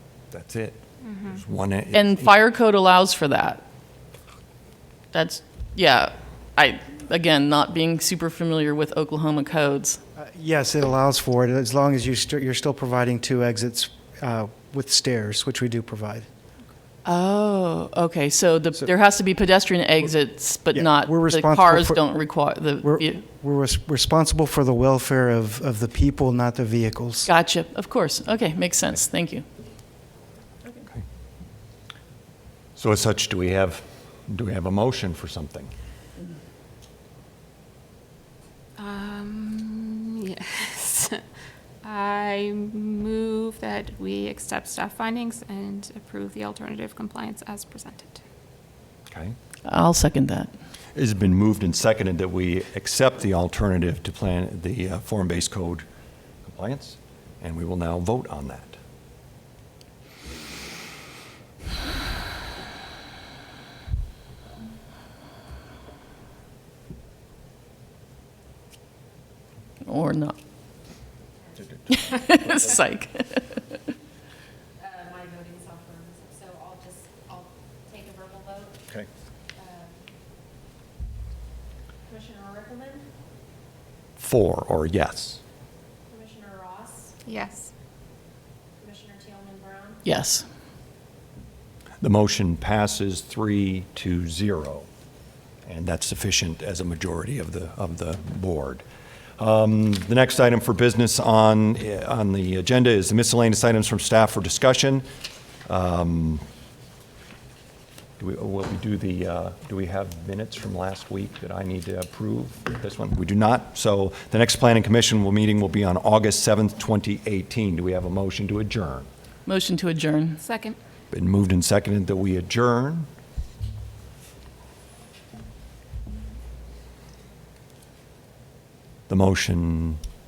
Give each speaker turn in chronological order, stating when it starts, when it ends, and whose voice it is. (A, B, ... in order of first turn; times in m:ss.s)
0:00.3-0:02.4 A
0:01.0-0:01.4 B
0:01.9-0:03.6 C
0:05.1-0:10.0 C
0:10.2-0:16.3 D
0:17.0-0:23.2 C
0:20.7-0:22.0 D
0:22.8-0:27.3 D
0:27.2-0:29.4 C
0:32.8-0:35.7 A
0:38.8-0:41.2 B
0:41.8-0:48.2 B
0:49.1-0:49.4 A
0:49.6-0:50.5 C
0:50.9-0:55.8 A
0:56.4-0:58.8 A
1:09.8-1:10.4 C
1:11.6-1:12.7 A
1:11.9-1:13.8 C
1:14.8-1:18.8 E
1:19.6-1:20.0 E
1:22.1-1:23.0 E
1:24.2-1:25.4 A
1:26.1-1:27.1 E
1:27.2-1:27.7 B
1:28.8-1:30.0 E
1:30.0-1:30.4 C
1:32.0-1:34.9 A
1:35.6-1:38.8 A
1:39.4-1:45.0 A
1:45.6-1:46.4 A
1:48.2-1:59.1 A
1:59.4-2:00.4 C
2:00.4-2:00.8 B
2:01.1-2:03.1 A
2:09.1-2:10.0 A